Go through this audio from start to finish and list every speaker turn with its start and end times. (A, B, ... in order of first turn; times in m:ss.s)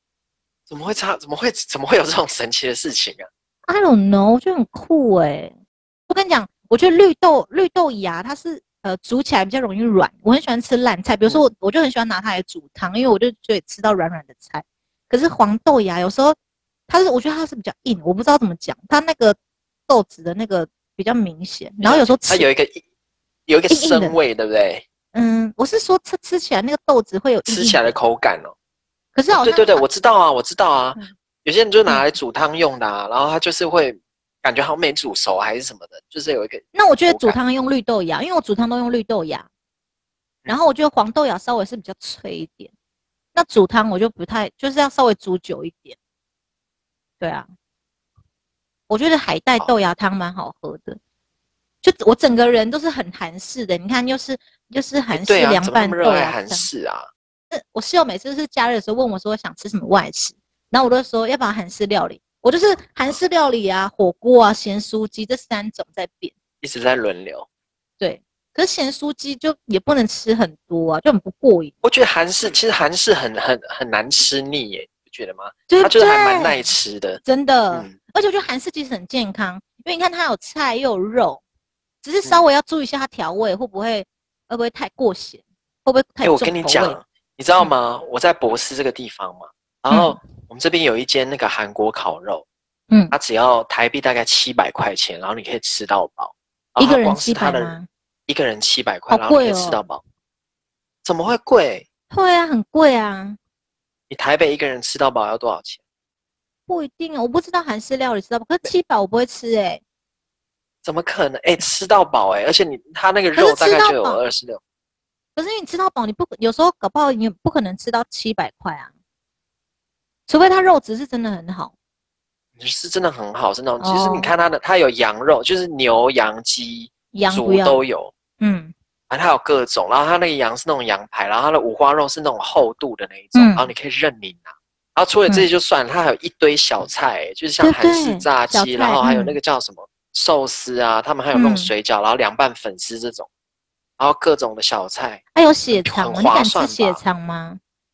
0:00.7-0:03.3 A
0:03.7-0:05.5 B
0:06.1-0:16.4 B
0:16.9-0:19.4 B
0:19.9-0:22.5 B
0:21.8-0:22.8 A
0:23.5-0:24.8 A
0:23.7-0:24.2 B
0:25.1-0:27.9 B
0:27.5-0:28.5 A
0:29.1-0:29.8 B
0:29.3-0:37.4 A
0:36.7-0:39.5 B
0:40.5-0:42.7 B
0:43.3-0:46.0 B
0:47.2-0:47.5 B
0:48.9-0:51.0 B
0:51.8-0:56.7 B
0:55.1-0:57.1 A
0:57.5-1:06.3 B
1:06.6-1:07.4 A
1:08.0-1:11.7 B
1:11.8-1:17.9 A
1:15.7-1:16.7 B
1:17.2-1:21.4 B
1:22.0-1:27.0 B
1:26.2-1:32.4 A
1:29.9-1:30.2 B
1:32.9-1:33.1 B
1:33.1-1:40.0 A
1:36.8-1:37.9 B
1:39.1-1:39.8 B
1:41.0-1:41.8 A
1:42.1-1:43.4 B
1:44.1-1:45.8 A
1:46.7-1:49.8 B
1:50.8-1:54.6 A
1:53.3-1:54.2 B
1:55.4-1:58.9 B
2:00.3-2:01.7 B
2:02.6-2:08.1 A
2:03.8-2:04.3 B
2:07.1-2:07.8 B
2:08.4-2:08.7 B
2:09.1-2:23.3 A
2:13.3-2:13.7 B
2:17.6-2:19.4 B
2:21.3-2:21.7 B
2:24.0-2:27.0 A
2:25.3-2:27.6 B